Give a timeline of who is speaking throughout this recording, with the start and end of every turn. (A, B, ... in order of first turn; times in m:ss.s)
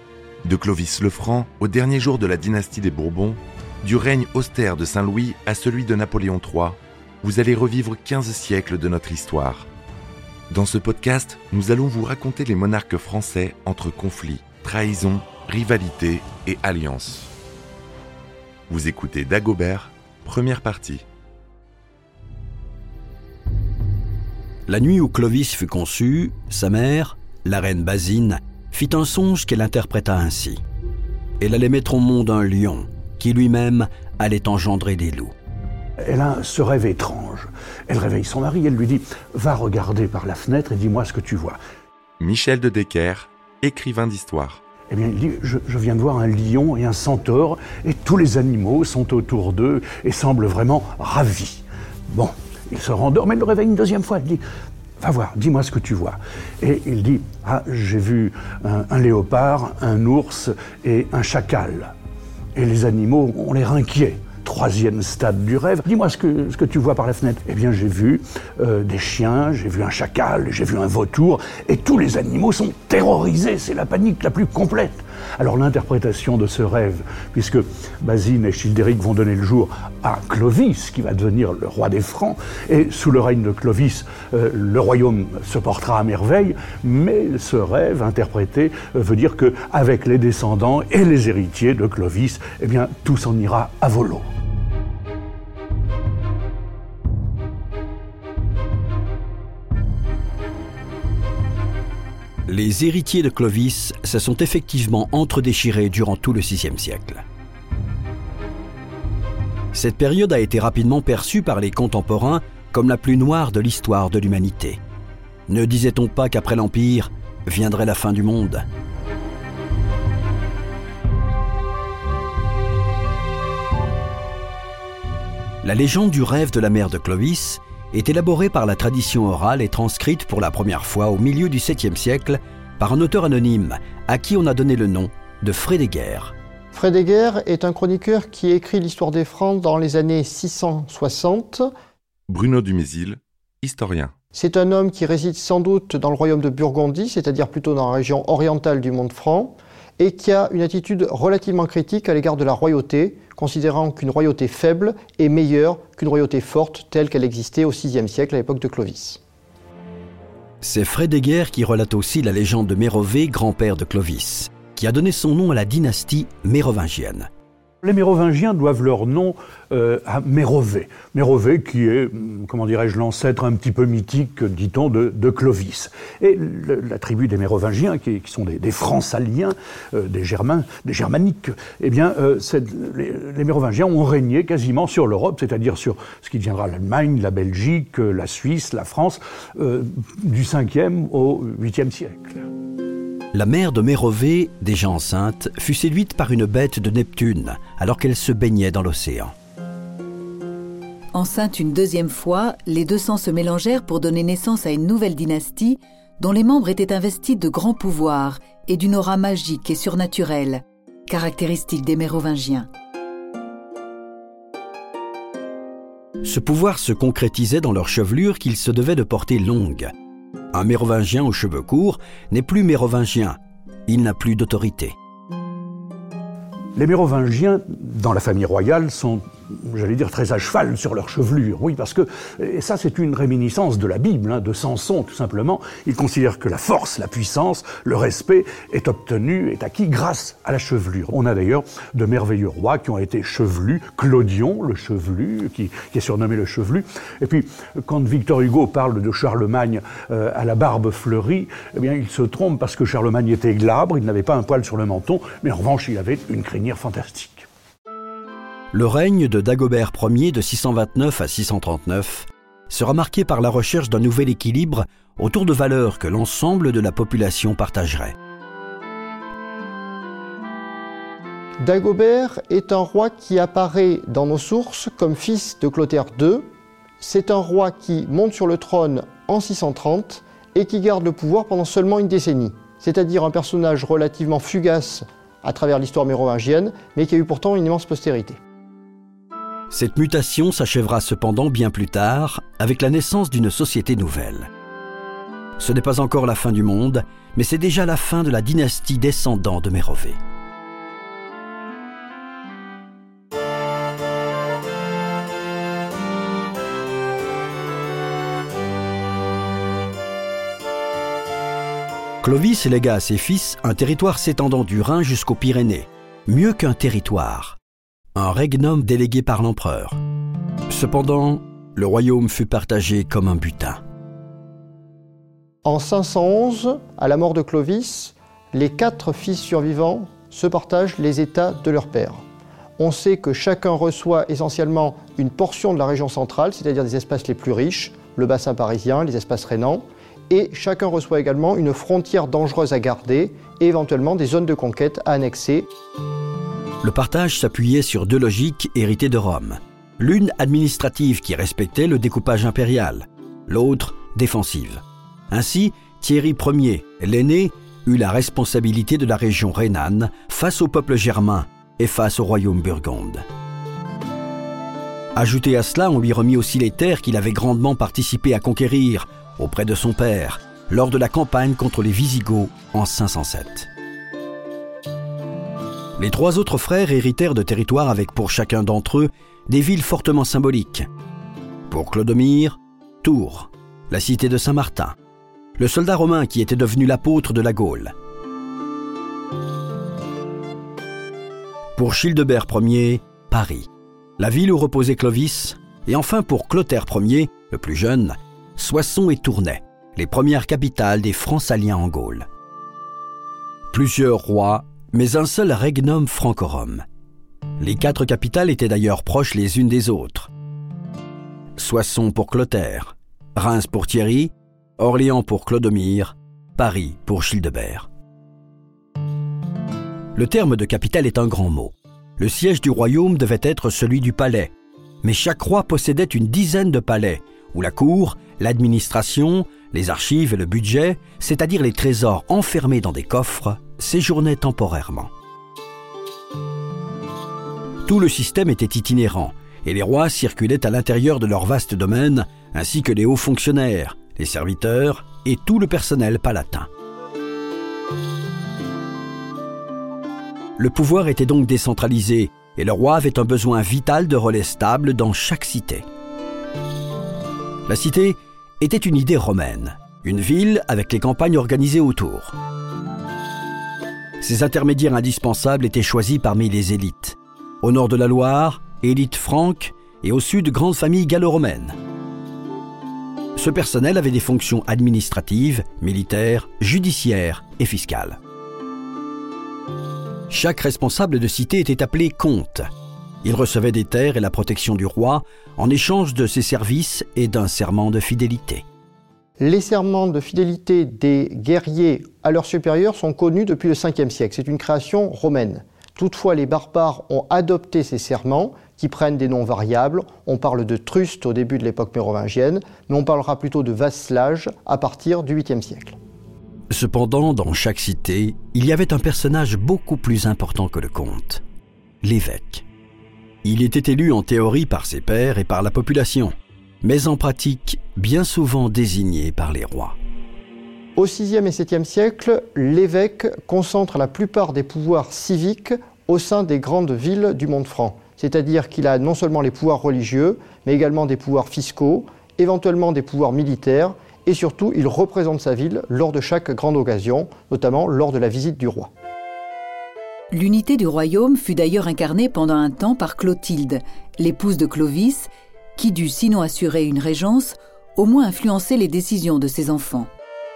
0:00.4-0:09.7 A
0:10.5-0:17.3 A
0:18.7-0:21.0 A
0:24.7-0:30.6 B
0:31.4-0:35.3 B
0:36.0-0:41.6 C
0:42.2-0:44.6 A
0:44.9-0:54.4 C
0:55.0-1:01.9 C
1:02.5-1:34.3 C
1:42.4-1:47.2 B
1:49.7-1:54.8 B
1:55.5-1:58.6 B
2:05.6-2:16.3 B
2:16.7-2:21.7 D
2:22.3-2:24.1 A
2:24.3-2:39.2 D
2:40.6-2:47.3 B
2:47.8-3:12.4 C
3:13.3-3:19.3 B
3:21.1-3:32.7 E
3:36.2-3:39.9 B
3:40.5-3:44.9 B
3:46.7-4:17.4 C
4:18.7-4:28.2 B
4:31.6-4:36.5 D
4:37.0-4:48.4 D
4:49.7-4:54.5 B
4:55.6-5:00.2 B
5:12.2-5:17.6 B
5:18.1-5:20.0 B
5:20.7-5:23.8 B
5:25.6-5:32.2 D
5:32.8-5:45.7 D
5:46.8-6:03.2 B
6:05.2-6:13.7 B
6:16.0-6:20.9 B
6:21.7-6:25.0 B
6:25.6-6:27.9 B
6:31.8-6:42.3 B
6:43.7-6:46.8 B
6:47.6-6:50.3 B
6:51.6-6:57.9 B
7:00.1-7:15.1 B
7:17.8-7:26.7 B
7:30.6-7:35.8 B
7:37.6-7:42.3 B
7:44.2-7:51.8 B
7:53.4-7:58.2 B
8:00.3-8:02.6 B
8:03.2-8:08.6 B
8:09.4-8:26.0 D
8:26.7-8:31.4 B
8:32.0-8:32.6 B
8:33.4-8:40.0 B
8:41.0-8:58.9 D
9:00.3-9:10.1 E